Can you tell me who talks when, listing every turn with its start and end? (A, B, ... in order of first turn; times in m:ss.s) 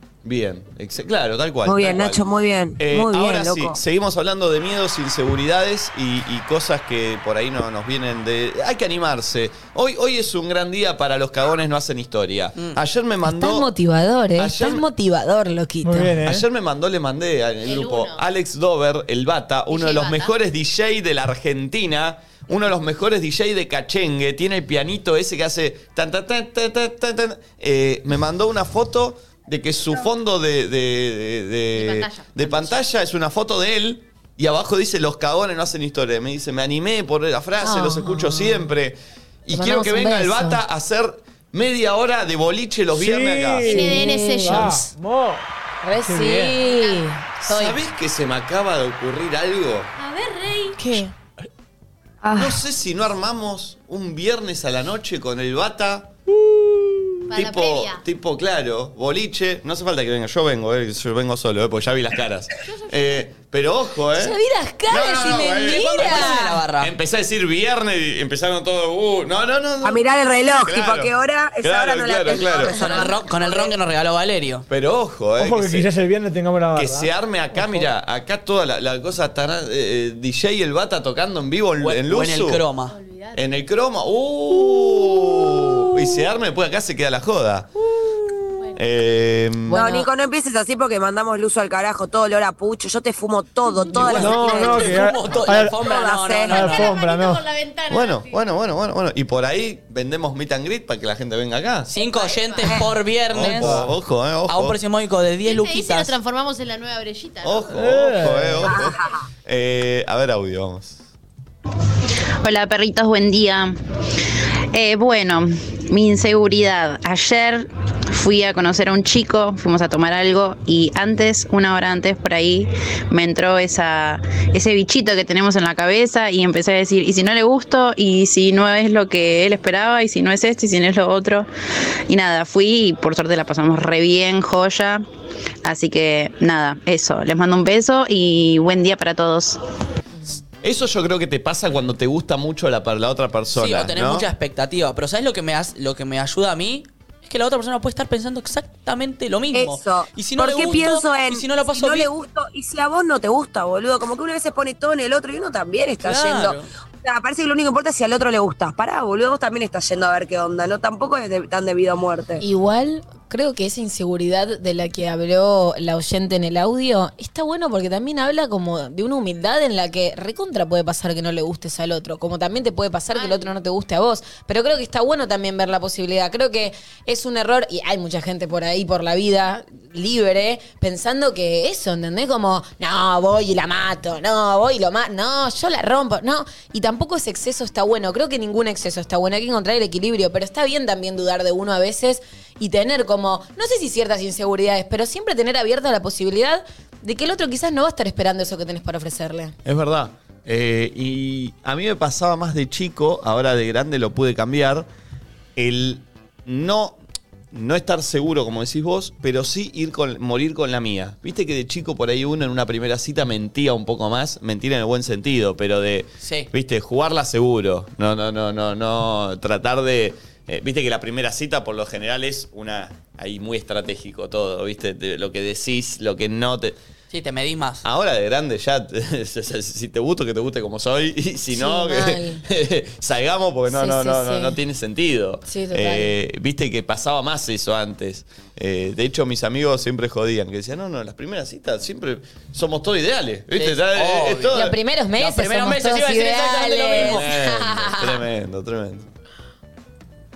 0:00.2-0:02.2 A
0:01.6-0:03.8 B
0:02.8-0:13.7 A
0:13.2-0:16.2 C
0:14.4-0:14.9 A
0:15.8-0:16.4 D
0:16.2-0:43.8 A
0:17.6-0:18.2 E
0:19.7-0:20.3 E
0:31.8-0:32.8 E
0:37.6-0:38.7 C
0:39.5-0:40.6 C
0:43.0-0:45.5 D
0:43.6-0:44.9 E
0:43.7-0:44.8 C
0:45.8-0:47.8 C
0:46.0-0:46.6 D
0:46.6-0:47.0 E
0:47.4-0:49.9 A
0:50.0-0:50.8 E
0:50.8-0:51.1 C
0:52.4-0:56.1 A
0:56.4-0:57.2 D
0:57.3-0:58.0 E
0:57.3-1:04.4 A
1:02.8-1:03.1 E
1:04.1-1:06.6 C
1:04.9-1:10.0 A
1:05.4-1:06.9 F
1:09.8-1:13.7 B
1:10.6-1:12.8 A
1:12.6-1:14.7 F
1:14.7-1:15.9 A
1:15.4-1:17.9 D
1:16.8-1:22.6 A
1:21.8-1:22.9 F
1:22.9-1:23.4 E
1:23.4-1:27.7 A
1:28.7-1:29.8 A
1:29.7-1:30.1 C
1:29.7-1:35.0 B
1:34.0-1:36.9 F
1:34.0-1:35.8 D
1:35.7-1:36.8 B
1:36.5-1:38.4 E
1:36.5-1:37.4 D
1:37.9-1:41.9 A
1:41.9-1:42.8 E
1:41.9-1:43.8 F
1:43.3-1:44.8 A
1:43.4-1:43.9 D
1:44.5-1:46.2 F
1:45.4-1:47.7 E
1:47.4-1:51.0 A
1:47.7-1:48.8 D
1:48.7-1:49.2 B
1:52.4-1:53.8 G
1:54.7-2:11.5 G
2:12.1-2:15.0 G
2:15.6-2:19.6 G
2:20.6-2:24.3 A
2:23.5-2:32.1 F
2:29.5-2:42.4 B
2:36.0-2:36.7 F
2:42.4-3:19.6 C
2:53.1-2:53.5 E
3:19.6-3:24.9 A
3:25.6-3:27.0 A
3:27.5-3:46.8 A
3:36.2-3:36.5 F
3:47.1-3:47.8 F
3:47.8-4:04.8 A
3:51.5-3:52.4 C
3:53.7-3:54.6 C
3:55.5-3:56.1 C
4:03.6-4:04.6 F
4:04.5-4:08.2 C
4:05.2-4:07.3 F
4:07.0-4:09.1 A